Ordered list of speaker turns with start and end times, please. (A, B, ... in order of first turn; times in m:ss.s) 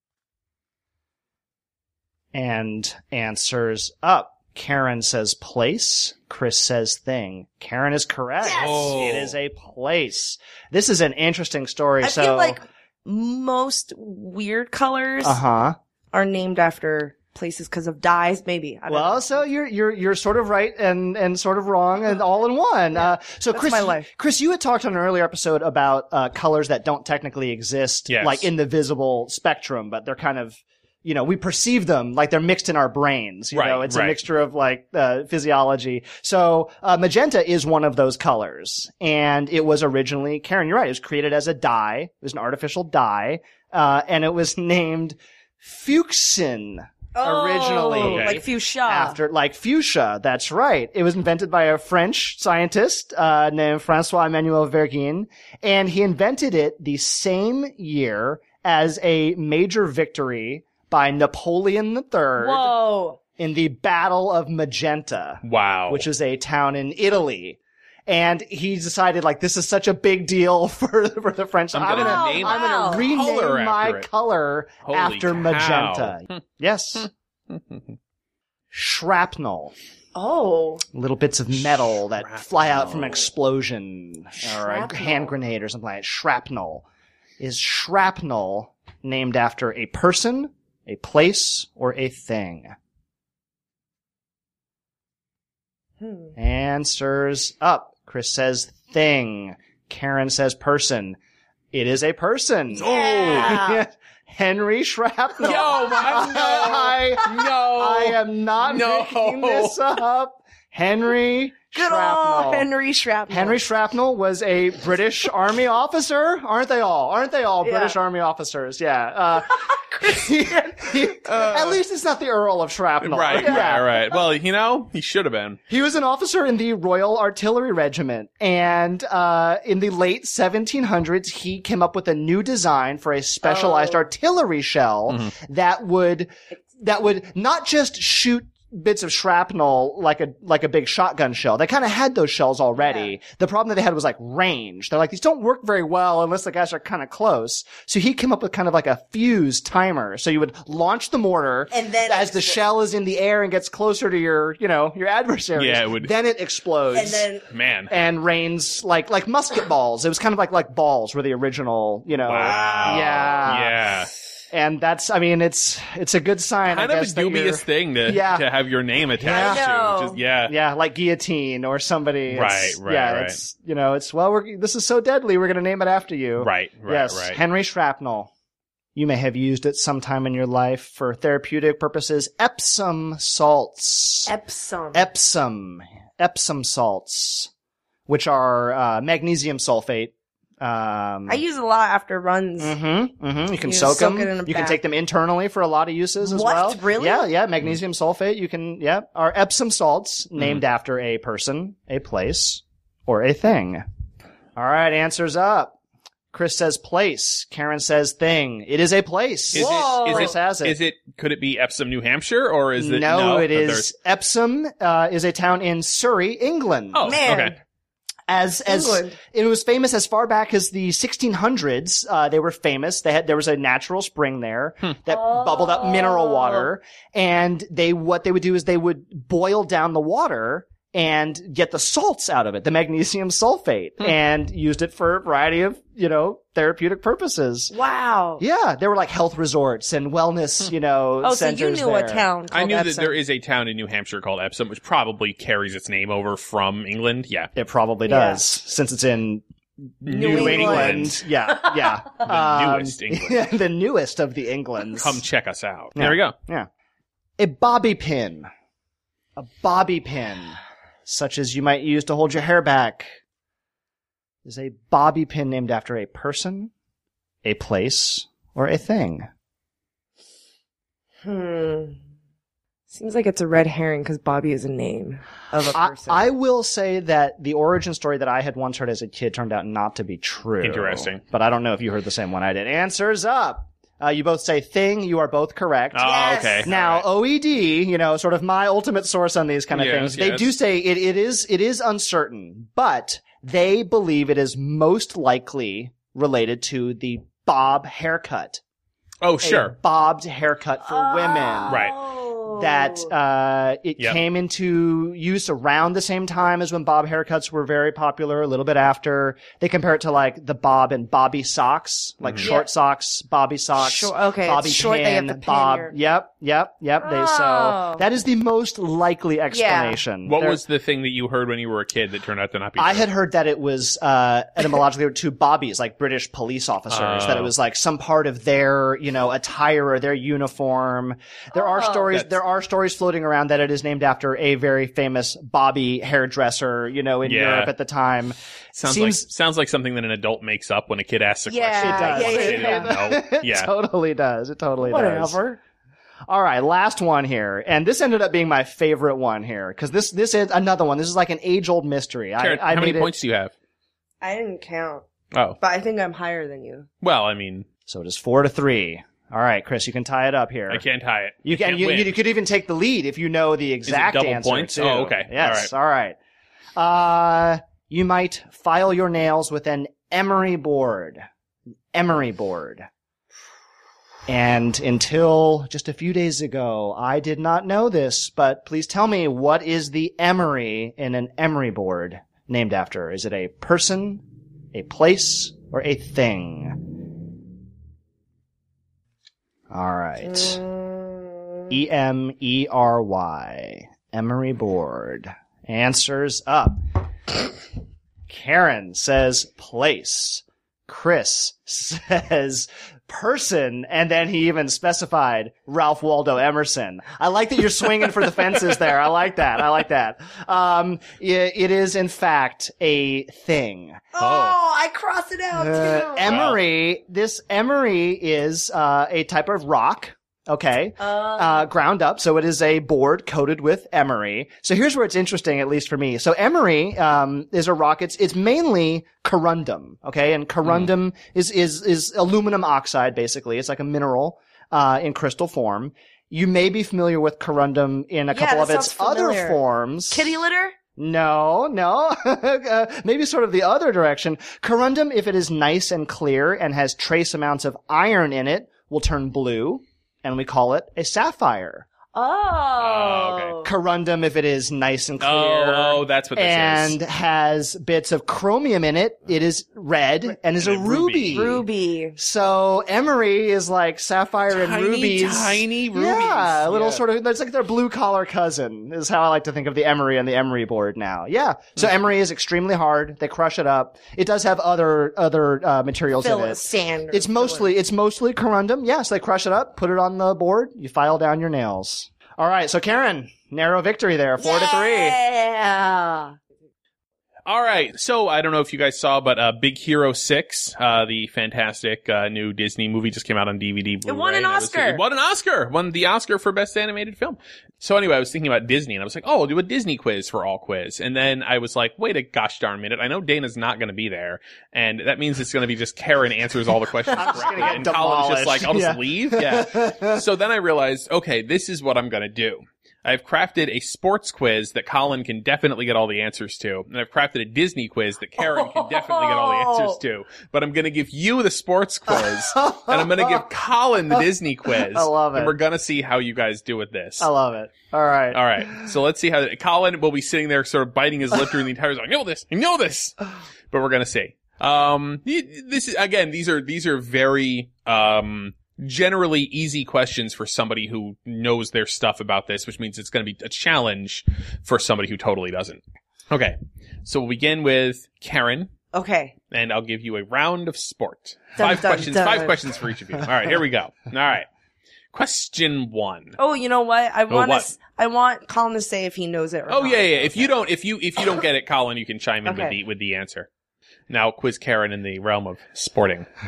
0:02.3-0:12.6 A
0:08.4-0:08.8 B
0:08.5-0:09.4 C
0:12.0-0:15.4 B
0:15.2-0:15.8 A
0:16.1-0:19.5 B
0:18.9-1:02.8 A
0:23.0-0:24.1 B
0:28.1-0:28.5 C
0:33.5-0:34.2 C
0:47.1-0:49.2 B
0:48.0-0:48.4 C
1:02.4-1:03.2 B
1:03.4-1:17.1 A
1:05.4-1:06.0 C
1:11.7-1:14.1 C
1:12.0-1:13.1 B
1:14.8-1:16.4 C
1:17.0-1:18.0 C
1:18.7-1:19.8 A
1:20.1-1:20.8 B
1:20.9-1:26.8 A
1:22.1-1:23.2 C
1:24.4-1:25.3 B
1:27.4-1:32.8 A
1:36.0-1:36.3 B
1:36.4-1:41.2 A
1:41.7-1:52.7 A
1:42.8-1:43.8 B
1:42.8-1:43.6 C
1:45.4-1:49.8 C
1:51.7-1:53.6 B
1:53.3-2:03.9 A
1:57.6-1:58.0 B
1:59.6-2:00.9 B
2:01.3-2:01.8 C
2:03.0-2:05.6 C
2:03.4-2:03.7 B
2:05.7-2:37.3 A
2:13.4-2:14.1 B
2:15.1-2:15.3 C
2:22.8-2:23.1 B
2:31.7-2:32.6 B
2:35.6-2:36.1 C
2:36.9-2:37.4 B
2:37.5-2:37.9 C
2:37.9-2:43.7 A
2:42.2-2:44.1 C
2:42.4-2:43.5 B
2:44.5-2:48.5 A
2:46.7-2:50.5 C
2:49.2-2:49.7 A
2:49.2-2:50.2 B
2:50.5-2:58.3 A
2:52.3-2:53.4 C
2:56.4-2:57.4 C
2:58.9-3:04.3 A
3:04.3-3:05.1 B
3:04.9-3:07.5 A
3:08.1-3:11.4 A
3:11.3-3:12.8 B
3:12.6-3:23.8 A
3:13.6-3:14.8 B
3:16.2-3:17.3 B
3:20.4-3:20.6 C
3:24.6-3:25.8 A
3:26.3-3:30.8 A
3:29.5-3:33.9 C
3:29.5-3:30.4 B
3:32.8-3:37.1 A
3:36.9-3:37.6 C
3:37.0-3:37.6 B
3:38.3-3:57.7 A
3:38.7-3:39.2 B
3:45.1-3:46.7 B
3:57.7-3:58.4 B
3:58.4-4:02.2 A
4:01.2-4:03.2 B
4:02.5-4:07.5 C
4:07.6-4:09.4 A
4:08.1-4:08.4 B
4:10.0-4:11.2 C
4:10.1-4:15.2 A
4:10.1-4:11.0 B
4:12.2-4:13.4 C
4:15.0-4:16.4 C
4:16.0-4:16.7 A
4:17.4-4:18.5 A
4:19.4-4:23.1 A
4:24.4-4:26.7 A
4:27.4-4:29.3 A
4:31.2-4:32.0 B
4:32.9-4:36.2 B
4:35.7-4:58.6 A
4:40.6-4:41.2 C
4:45.9-4:47.1 C
4:46.0-4:46.7 B
4:49.7-4:50.5 C
4:59.2-4:59.7 C
4:59.4-5:01.9 A
5:00.8-5:03.1 B
5:01.7-5:01.9 C
5:02.5-5:20.6 A
5:12.2-5:12.5 C
5:12.4-5:12.7 B
5:13.8-5:15.9 B
5:17.0-5:18.0 B
5:19.5-5:20.0 B
5:20.2-5:23.1 C
5:22.8-5:39.3 A
5:26.9-5:27.5 C
5:31.5-5:32.1 B
5:32.1-5:32.4 C
5:37.2-5:37.7 C
5:38.7-5:43.7 C
5:41.5-5:42.9 B
5:41.8-5:45.4 A
5:44.8-5:45.6 B
5:46.3-5:53.1 A
5:52.4-5:53.5 C
5:54.2-5:55.1 B
5:55.3-5:55.6 C
5:55.6-5:56.9 B
5:57.0-5:57.7 C
5:57.9-6:00.8 A
6:00.7-6:02.1 C
6:01.4-6:06.2 A
6:03.9-6:05.7 C
6:06.8-6:11.2 A
6:11.9-6:12.9 A
6:14.3-6:26.8 A
6:29.7-6:30.6 A
6:31.7-6:36.8 A
6:38.3-6:54.0 A
6:54.1-6:56.4 B
6:54.2-6:54.6 C
6:55.5-7:20.4 A
6:56.2-6:56.6 C
7:01.0-7:01.7 B
7:18.3-7:20.8 B
7:21.0-7:31.9 A
7:32.1-7:33.7 B
7:32.8-7:33.6 C
7:33.6-7:41.6 A
7:35.2-7:37.0 C
7:40.6-7:41.6 C
7:41.3-7:42.2 B
7:42.2-8:05.2 A
7:44.5-7:47.0 C
7:56.2-7:57.7 B
8:04.4-8:06.4 B
8:07.4-8:47.3 C
8:14.1-8:15.0 B
8:27.1-8:30.2 A
8:38.4-8:40.0 B
8:42.1-8:43.5 A
8:44.7-8:45.6 A
8:47.2-8:48.4 A
8:48.3-8:53.2 C
8:53.7-9:08.7 C
9:08.9-9:09.3 B
9:09.5-9:14.5 C
9:11.6-9:12.6 B
9:15.1-9:16.4 C
9:16.4-9:20.5 B
9:17.3-9:17.7 C
9:19.7-9:23.5 C
9:22.4-9:22.7 B
9:24.1-9:26.3 C